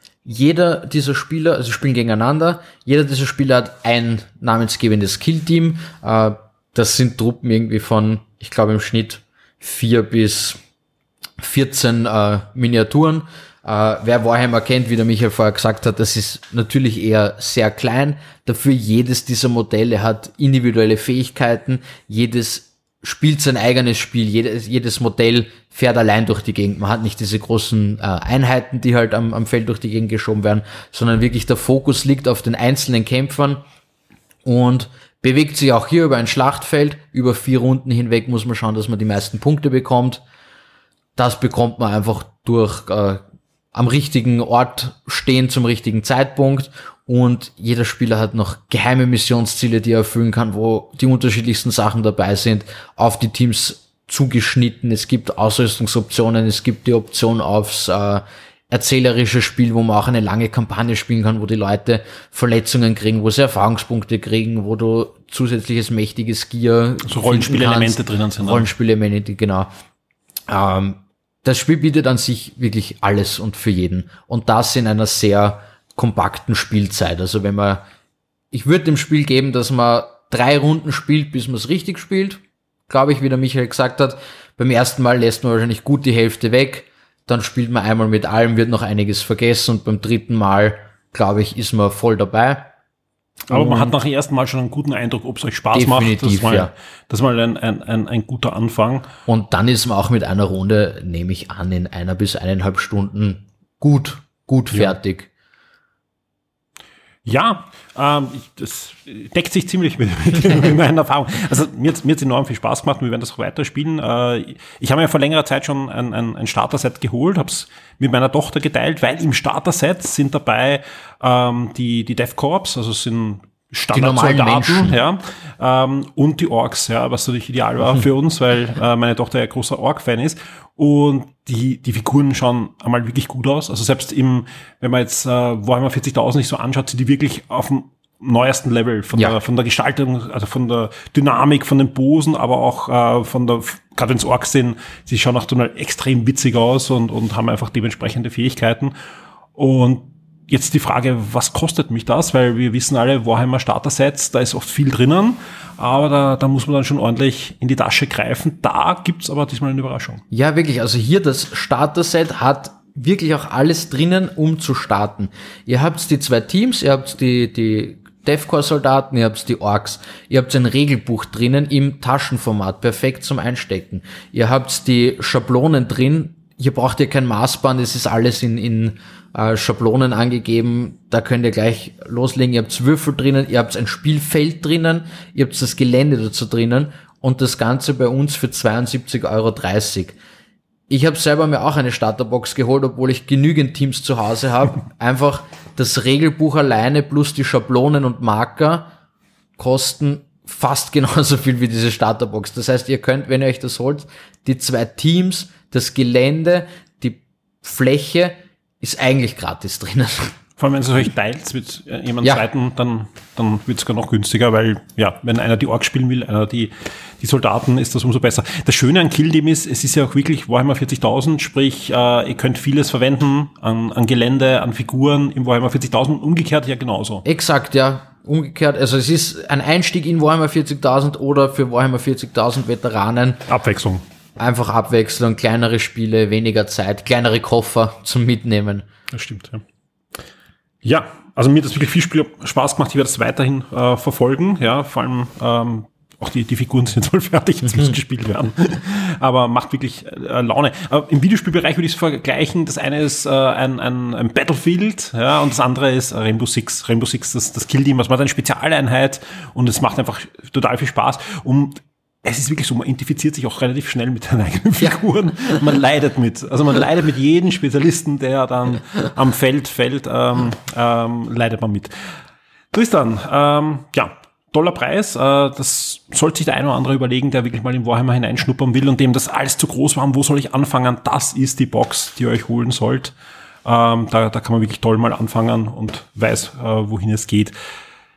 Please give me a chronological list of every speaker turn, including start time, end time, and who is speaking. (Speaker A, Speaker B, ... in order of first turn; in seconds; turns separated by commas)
Speaker A: 0.3-10.6, Speaker A: 11.4-33.6, Speaker A: 34.5-40.2, Speaker A: 41.2-69.7, Speaker B: 67.0-68.7, Speaker A: 70.5-77.8, Speaker A: 78.5-92.7, Speaker A: 93.5-94.0, Speaker B: 93.5-99.1, Speaker A: 95.7-96.7, Speaker A: 99.3-105.3, Speaker B: 107.2-148.9, Speaker A: 123.9-125.0, Speaker B: 149.6-160.2, Speaker A: 160.3-190.2, Speaker A: 190.9-198.9, Speaker A: 199.6-210.4, Speaker B: 210.6-227.2, Speaker A: 227.2-233.4, Speaker B: 233.5-234.0, Speaker A: 234.4-238.9, Speaker B: 239.1-239.6, Speaker B: 240.8-271.9, Speaker B: 272.7-283.1, Speaker B: 283.6-287.5